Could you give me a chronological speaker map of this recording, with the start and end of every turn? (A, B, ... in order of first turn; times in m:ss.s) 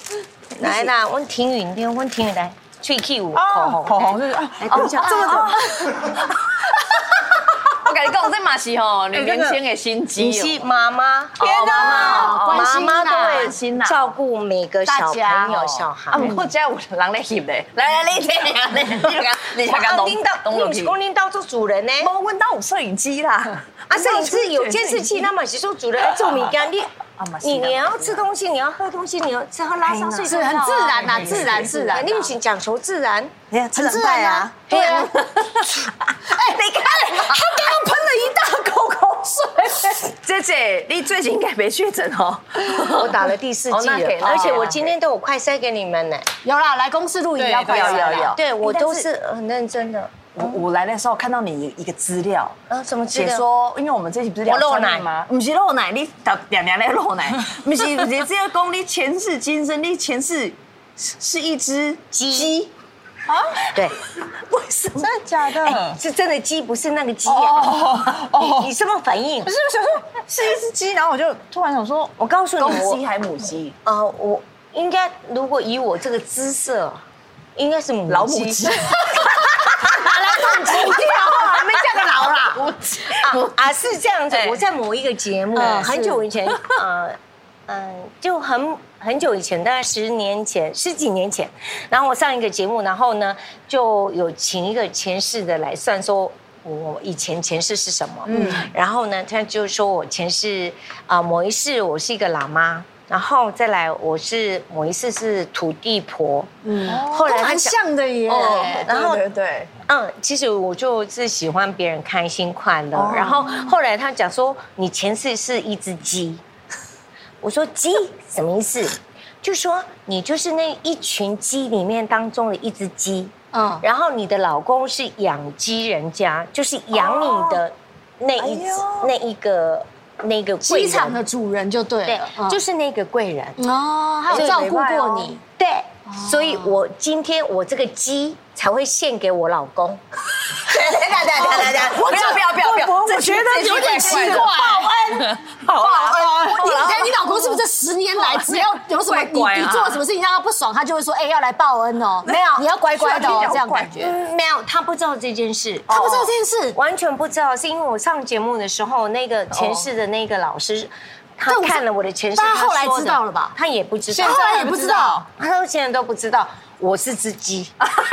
0:00.6-0:05.6 A
0:00.6-0:00.9 B
0:03.3-0:06.0 C
0:04.7-0:10.6 B
0:05.1-0:05.4 D
0:10.2-0:16.4 A
0:11.4-0:14.2 B
0:11.4-0:13.5 D
0:14.9-0:15.5 D
0:15.4-0:21.0 B
0:19.6-0:22.1 A
0:22.0-0:25.3 B
0:23.9-0:26.9 A
0:26.0-0:26.5 B
0:27.2-0:28.2 B
0:27.4-0:33.3 A
0:29.8-0:32.3 B
0:30.2-0:32.2 D
0:33.5-0:37.8 B
0:33.7-0:35.1 D
0:34.7-0:35.1 A
0:36.2-0:39.8 D
0:39.7-0:44.9 B
0:42.7-0:46.2 A
0:46.4-0:48.3 D
0:47.4-0:48.3 C
0:47.6-0:49.0 B
0:48.3-0:50.6 A
0:50.3-0:52.6 B
0:52.7-0:53.4 A
0:53.1-1:02.7 B
0:54.4-0:55.1 A
1:02.1-1:02.6 A
1:03.3-1:03.7 C
1:03.7-1:04.0 A
1:04.5-1:05.0 B
1:05.0-1:06.0 C
1:05.6-1:09.5 A
1:07.2-1:08.7 C
1:09.4-1:12.2 C
1:12.2-1:13.0 A
1:12.6-1:13.8 B
1:13.8-1:17.0 A
1:17.6-1:19.0 A
1:18.1-1:23.5 B
1:19.9-1:22.6 D
1:20.0-1:27.2 A
1:24.3-1:24.6 B
1:25.6-1:26.2 D
1:25.6-1:26.0 B
1:27.7-1:47.8 A
1:38.3-1:38.7 C
1:46.6-1:48.9 D
1:46.8-1:47.1 B
1:48.3-1:49.7 B
1:48.4-1:49.2 A
1:49.9-1:56.4 A
1:52.9-1:53.7 B
1:57.4-2:11.2 A
2:03.5-2:03.8 D
2:06.9-2:07.6 B
2:08.4-2:09.1 B
2:10.6-2:12.6 D
2:12.0-2:13.6 A
2:13.6-2:15.4 D
2:14.3-2:15.3 B
2:14.3-2:14.6 A
2:15.6-2:20.0 A
2:16.1-2:16.7 D
2:20.6-2:27.6 B
2:20.8-2:34.1 D
2:20.9-2:22.0 A
2:28.2-2:30.0 B
2:32.2-2:32.6 A
2:32.9-2:34.1 B
2:34.0-2:47.7 A
2:35.9-2:36.3 B
2:35.9-2:36.8 D
2:39.5-2:39.9 B
2:41.5-2:41.8 D
2:42.4-2:43.5 D
2:44.1-2:45.3 C
2:44.2-2:45.2 D